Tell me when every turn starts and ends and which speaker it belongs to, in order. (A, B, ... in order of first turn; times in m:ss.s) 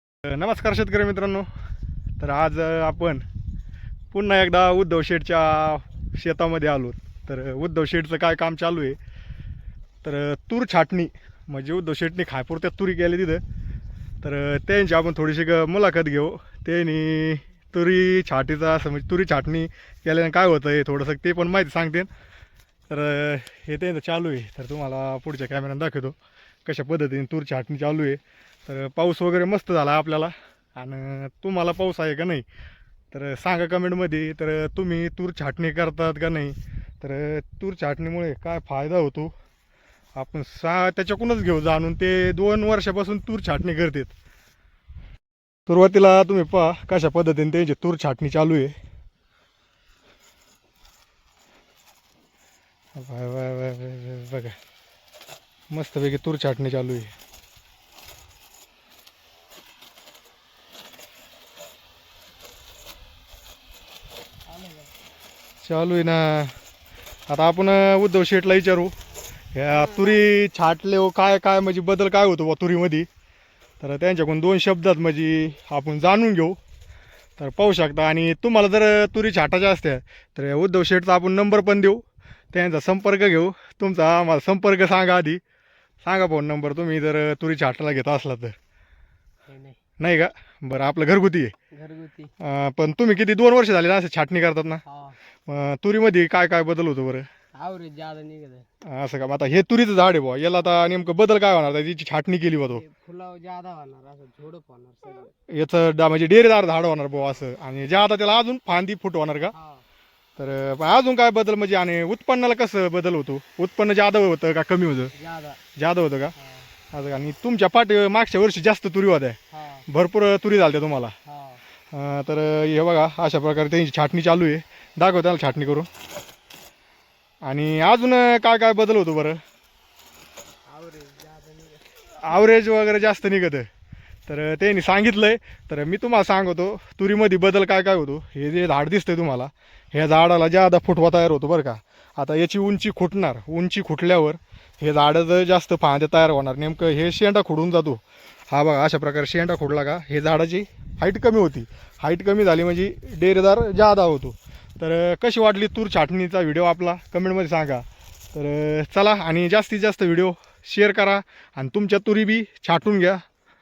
0:00.2-0:01.5 A
0:02.2-0:03.2 A
0:04.1-0:09.0 A
0:10.0-0:13.4 A
0:14.2-0:22.1 A
0:22.9-0:32.4 A
0:33.1-0:39.3 A
0:40.1-0:44.1 A
0:45.7-0:48.8 A
0:52.9-0:54.6 A
0:55.7-0:57.1 A
1:04.5-1:04.9 B
1:05.6-1:06.5 A
1:07.3-1:08.9 A
1:09.5-1:13.1 A
1:09.7-1:10.2 B
1:13.8-1:16.6 A
1:17.4-1:22.0 A
1:22.5-1:25.4 A
1:26.0-1:28.5 A
1:29.5-1:29.8 B
1:30.0-1:31.5 A
1:31.7-1:32.3 B
1:32.4-1:34.8 A
1:34.8-1:35.2 B
1:35.5-1:37.3 A
1:37.5-1:38.7 B
1:38.8-1:42.8 A
1:42.7-1:45.3 B
1:45.5-1:49.5 A
1:49.5-1:49.8 B
1:50.4-1:55.1 A
1:55.2-1:55.6 B
1:55.8-1:56.3 A
1:56.4-1:56.7 B
1:56.9-2:01.1 A
1:59.5-1:59.9 B
2:01.2-2:01.6 B
2:01.9-2:05.9 A
2:07.4-2:09.4 A
2:10.7-2:12.5 B
2:12.2-2:13.7 A
2:14.3-2:43.2 A